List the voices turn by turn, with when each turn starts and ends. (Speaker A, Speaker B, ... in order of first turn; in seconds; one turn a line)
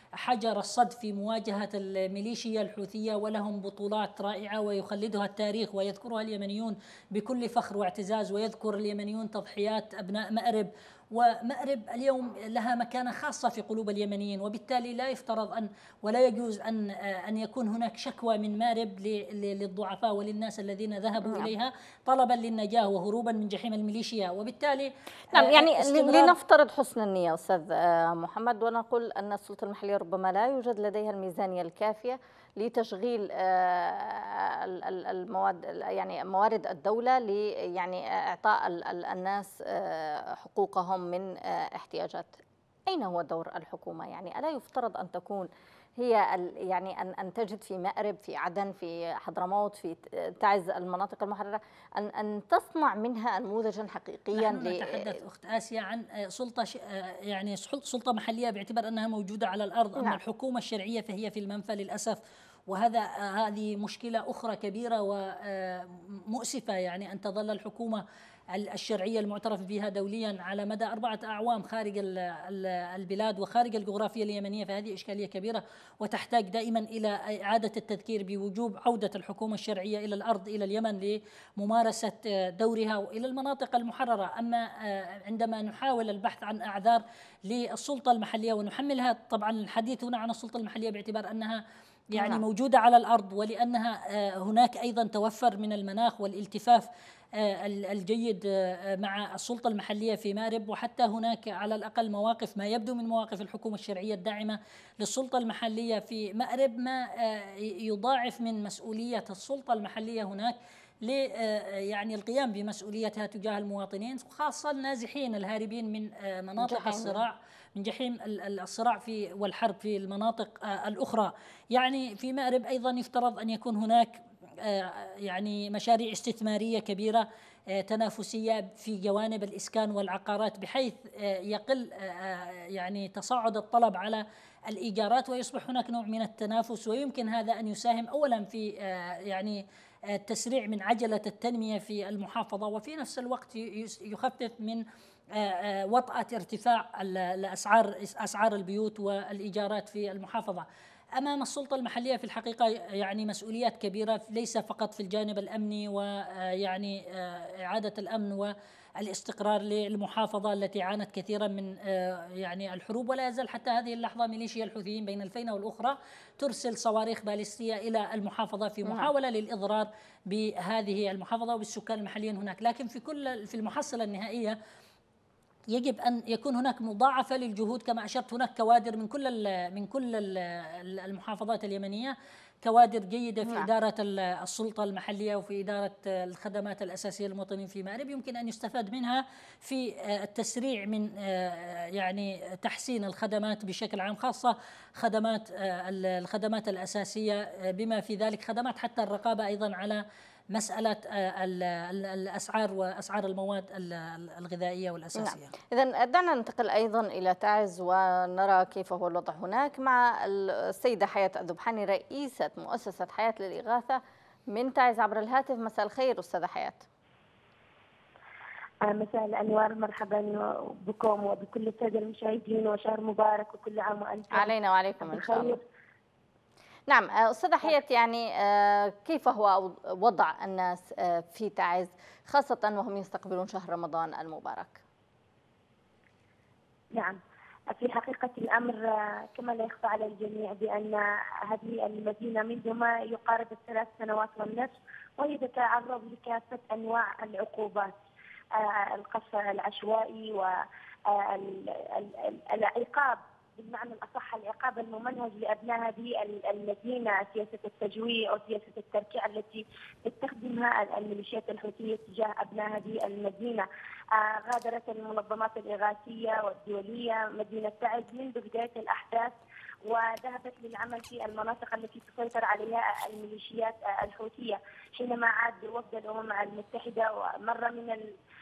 Speaker A: 0.2-26.3
Speaker B: 21.2-21.5
Speaker B: 25.3-55.2
Speaker A: 54.3-62.2
Speaker A: 62.7-68.0
Speaker A: 68.5-91.6
Speaker A: 92.1-98.4
Speaker B: 92.2-92.4
Speaker A: 99.0-144.8
Speaker B: 116.6-117.2
Speaker A: 145.3-150.7
Speaker A: 151.2-174.6
Speaker B: 168.8-169.1
Speaker A: 175.7-200.0
Speaker B: 183.4-183.7
Speaker A: 200.5-205.5
Speaker B: 205.1-216.8
Speaker C: 218.8-225.6
Speaker B: 224.3-225.6
Speaker B: 226.9-234.8
Speaker C: 237.7-247.9
Speaker C: 248.6-250.6
Speaker C: 251.1-278.1